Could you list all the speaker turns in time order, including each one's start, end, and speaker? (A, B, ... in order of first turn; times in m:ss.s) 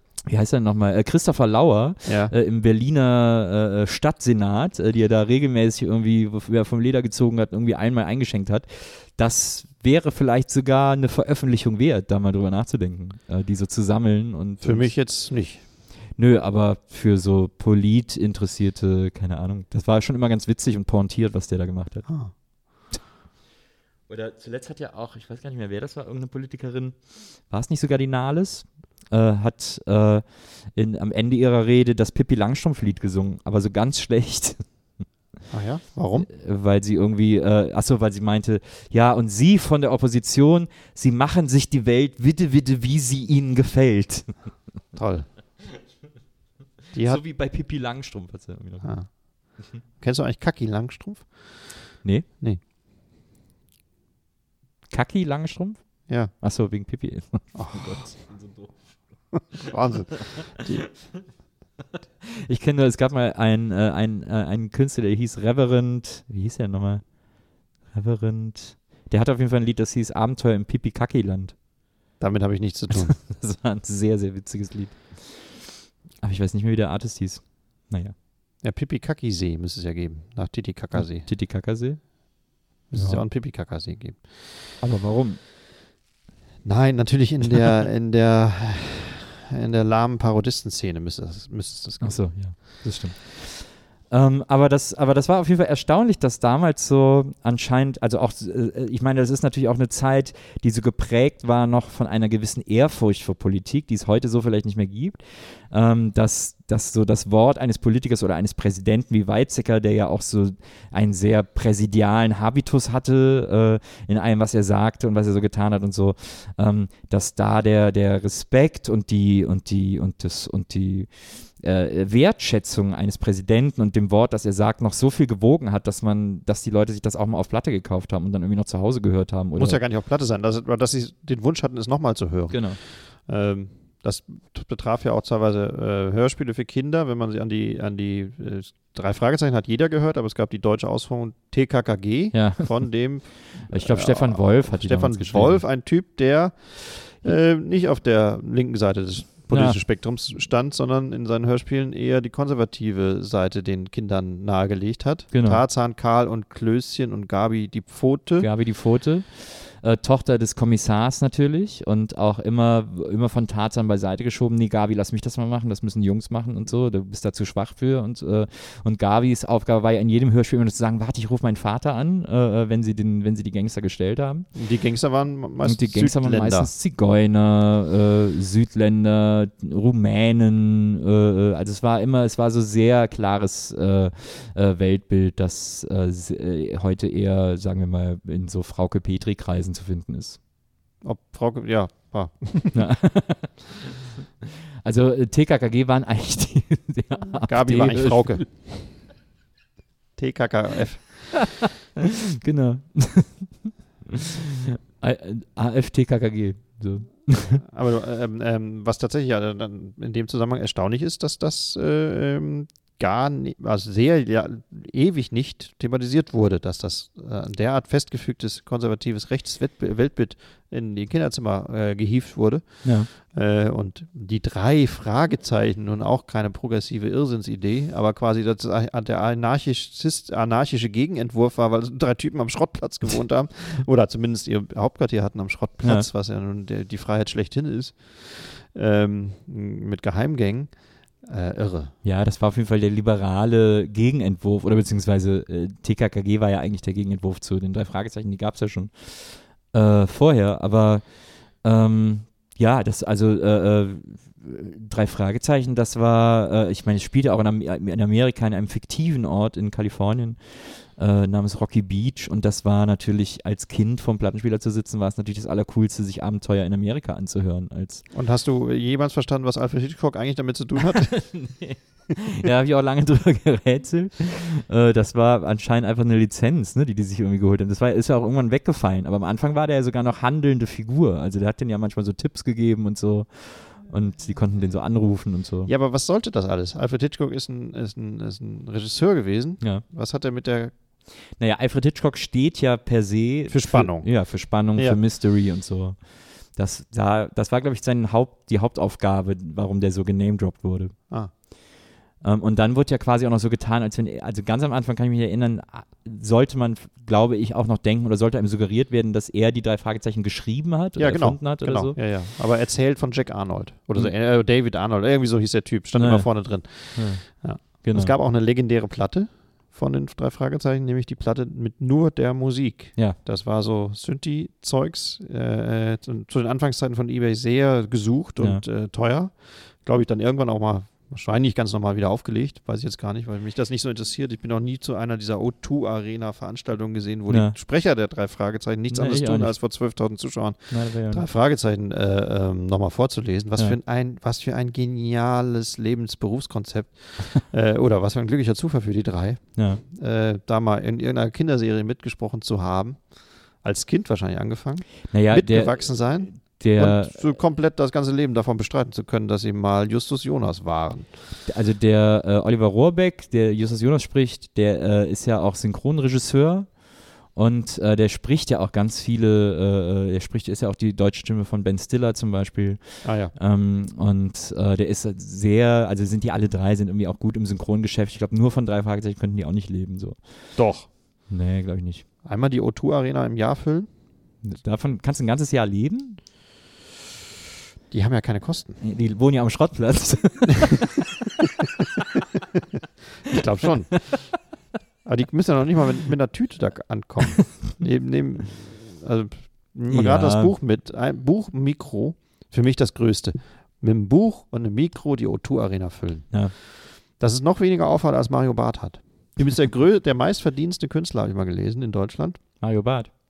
0:00.3-0:14.9 A
0:02.1-0:02.3 B
0:14.6-0:15.6 B
0:16.2-0:22.1 A
0:24.1-0:27.0 A
0:27.5-0:34.6 A
0:35.5-0:36.3 B
0:36.3-0:44.4 A
0:45.0-0:45.3 B
0:46.9-0:47.2 B
0:47.0-0:49.0 A
0:48.8-0:49.1 B
0:50.0-0:51.5 B
0:54.9-0:58.8 A
0:57.6-0:58.0 B
0:59.3-1:00.8 B
1:02.4-1:07.2 A
1:07.9-1:11.6 A
1:12.2-1:13.2 B
1:13.0-1:15.5 A
1:16.2-1:18.1 A
1:18.6-1:21.3 B
1:20.9-1:22.3 A
1:22.9-1:24.3 B
1:22.9-1:23.2 A
1:24.8-1:25.4 A
1:26.6-1:32.6 B
1:32.0-2:09.8 A
2:09.6-2:38.5 B
2:12.5-2:12.8 A
2:22.3-2:22.9 A
2:23.6-2:25.6 A
2:29.5-2:29.8 A
2:35.3-2:35.6 A
2:38.4-2:54.5 A
2:54.6-2:56.7 B
2:55.6-3:10.4 A
3:11.0-3:12.8 B
3:12.7-3:13.8 A
3:14.8-3:18.4 A
3:17.4-3:18.9 B
3:20.2-3:21.5 B
3:21.3-3:27.6 A
3:27.6-4:01.9 B
3:42.8-3:43.1 A
4:02.0-4:11.1 A
4:11.6-4:28.0 A
4:28.1-4:31.4 B
4:31.0-4:45.7 A
4:45.7-4:50.7 B
4:51.4-5:01.0 A
4:53.5-4:54.1 B
4:54.7-4:55.0 B
5:02.2-5:12.0 A
5:11.0-5:53.0 B
5:16.0-5:16.3 A
5:16.9-5:18.1 A
5:37.3-5:37.6 A
5:38.9-5:39.6 A
5:40.7-5:41.2 A
5:49.6-5:49.8 A
5:53.6-6:01.1 B
5:55.1-5:57.2 A
6:01.5-6:06.8 A
6:07.3-6:20.2 A
6:13.0-6:13.3 B
6:20.6-6:20.9 B
6:21.3-6:22.1 A
6:22.2-6:23.9 B
6:24.4-6:26.2 A
6:27.9-6:28.8 B
6:28.8-6:31.0 A
6:33.2-6:34.3 B
6:35.0-6:52.4 B
6:39.9-6:40.5 A
6:52.6-6:53.1 A